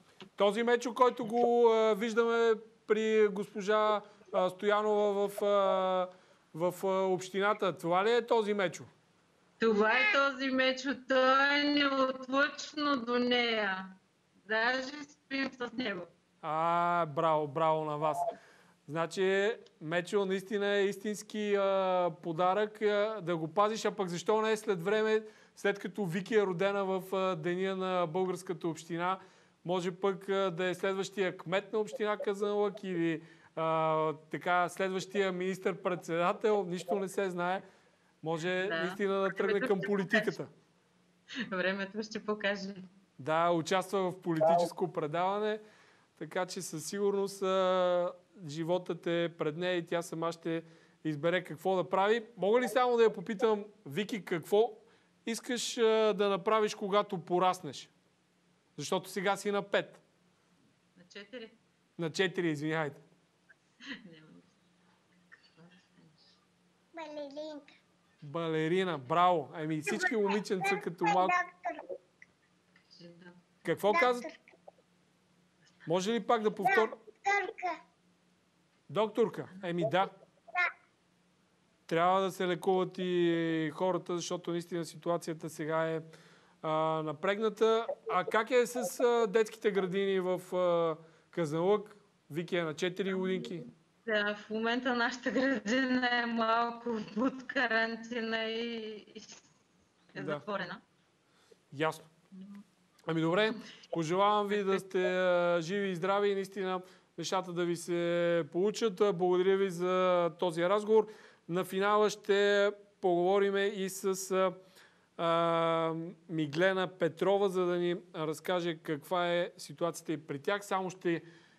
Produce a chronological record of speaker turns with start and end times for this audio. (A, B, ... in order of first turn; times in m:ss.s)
0:00.4-0:08.9 A
0:09.6-0:16.1 B
0:16.4-0:18.3 A
0:18.9-0:37.6 A
0:38.2-0:40.5 A
0:38.6-0:40.4 B
0:41.5-0:42.9 B
0:43.2-0:45.6 A
0:46.2-0:57.9 A
0:58.8-1:00.0 A
1:01.0-1:01.6 B
1:02.0-1:03.0 A
1:04.0-1:04.5 B
1:05.4-1:06.2 B
1:06.9-1:07.7 C
1:08.2-1:11.4 A
1:09.9-1:11.9 C
1:13.0-1:13.4 B
1:13.6-1:14.3 A
1:13.9-1:14.4 C
1:15.8-1:17.0 A
1:16.6-1:17.8 C
1:18.9-1:20.1 A
1:21.9-1:26.0 A
1:26.6-1:33.6 A
1:33.2-1:39.4 B
1:40.1-1:40.8 B
1:40.2-1:40.4 A
1:41.7-1:42.1 A
1:42.3-1:42.6 B
1:43.1-1:54.5 A
1:55.2-2:01.2 A